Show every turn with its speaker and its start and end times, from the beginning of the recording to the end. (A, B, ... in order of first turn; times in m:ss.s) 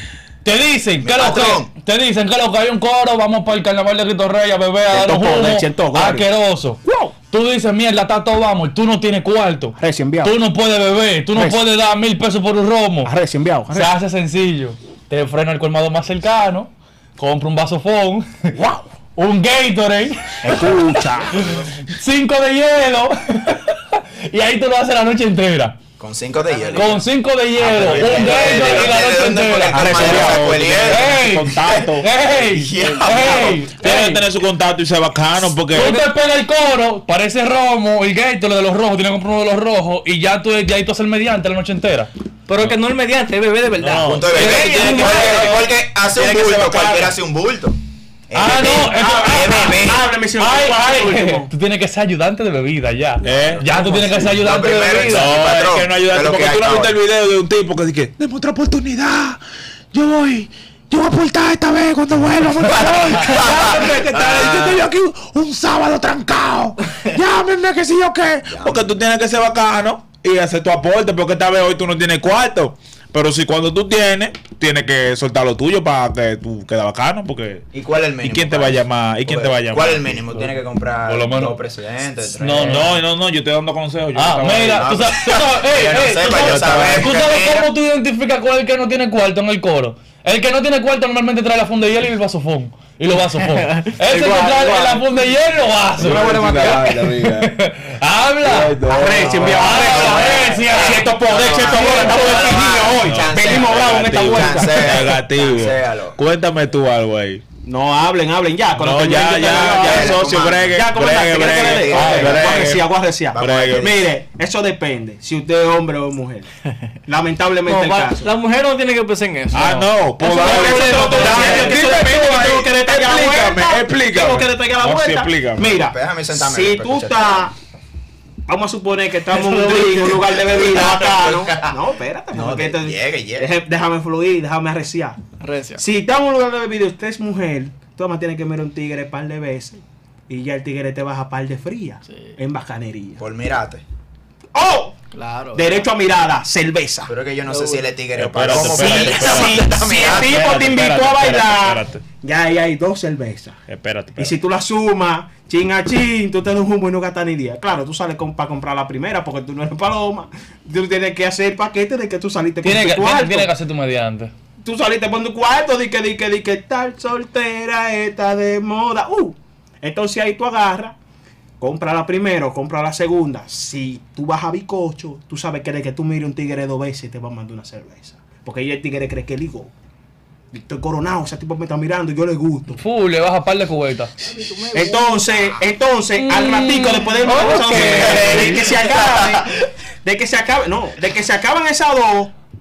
0:00.4-0:06.8 A
0:01.0-0:01.7 B
0:04.9-0:06.3 C
0:06.8-0:07.1 C
0:07.3-0:13.1 A
0:09.8-0:10.4 C
0:11.3-0:11.6 C
0:13.0-0:13.9 C
0:13.7-0:18.5 A
0:18.6-0:18.8 C
0:19.2-0:25.8 A
0:20.4-0:21.5 C
0:26.0-0:27.0 B
0:26.3-0:27.1 D
0:26.7-0:34.2 A
0:27.6-0:33.7 B
0:27.8-0:28.9 D
0:29.7-0:30.3 C
0:29.7-0:32.1 E
0:32.8-0:33.6 D
0:33.8-0:36.0 E
0:35.7-0:42.1 A
0:42.5-0:45.7 D
0:43.8-0:47.2 E
0:44.0-0:47.8 B
0:48.3-0:50.1 B
0:48.3-0:55.3 A
0:48.8-0:51.5 C
0:53.2-0:53.7 E
0:53.3-0:57.0 B
0:55.1-0:59.4 E
0:59.9-1:17.6 E
1:02.6-1:04.8 B
1:03.2-1:03.6 A
1:08.5-1:08.9 B
1:17.7-1:23.0 B
1:18.2-1:20.2 E
1:20.3-1:21.6 A
1:22.2-1:23.0 A
1:22.5-1:24.9 E
1:24.2-1:38.8 A
1:24.7-1:27.7 B
1:26.3-1:27.2 E
1:33.6-1:35.3 D
1:36.0-1:37.5 E
1:36.0-1:37.1 D
1:38.4-1:39.9 E
1:38.8-1:44.8 C
1:39.0-1:46.2 B
1:39.2-1:39.6 D
1:39.4-1:42.4 A
1:42.2-1:42.6 D
1:43.0-1:47.4 E
1:47.6-1:56.5 C
1:48.8-1:53.9 E
1:49.5-1:50.8 B
1:51.3-1:52.7 B
1:52.0-1:52.4 A
1:53.3-1:54.0 B
1:57.1-1:58.3 C
1:57.7-1:59.7 D
1:59.5-2:05.8 E
1:59.6-1:59.9 A
2:00.2-2:02.3 D
2:00.3-2:07.5 C
2:05.8-2:07.5 B
2:08.5-2:15.2 C
2:09.4-2:10.7 D
2:10.6-2:11.8 B
2:12.3-2:13.5 B
2:15.4-2:15.8 D
2:15.8-2:23.2 C
2:23.2-2:23.8 B
2:24.6-2:25.0 C
2:25.1-2:25.8 D
2:25.5-2:27.1 C
2:27.1-2:30.4 B
2:27.4-2:28.0 D
2:28.2-2:32.0 E
2:28.7-2:33.6 C
2:33.7-2:34.4 E
2:34.2-2:43.5 C
2:42.6-2:44.3 A
2:44.6-2:51.0 C
2:51.6-2:59.7 C
3:00.5-3:02.8 C
3:02.8-3:04.1 A
3:04.4-3:05.1 D
3:04.7-3:09.5 C
3:06.2-3:08.6 A
3:07.3-3:08.6 D
3:07.8-3:09.4 B
3:10.0-3:12.3 C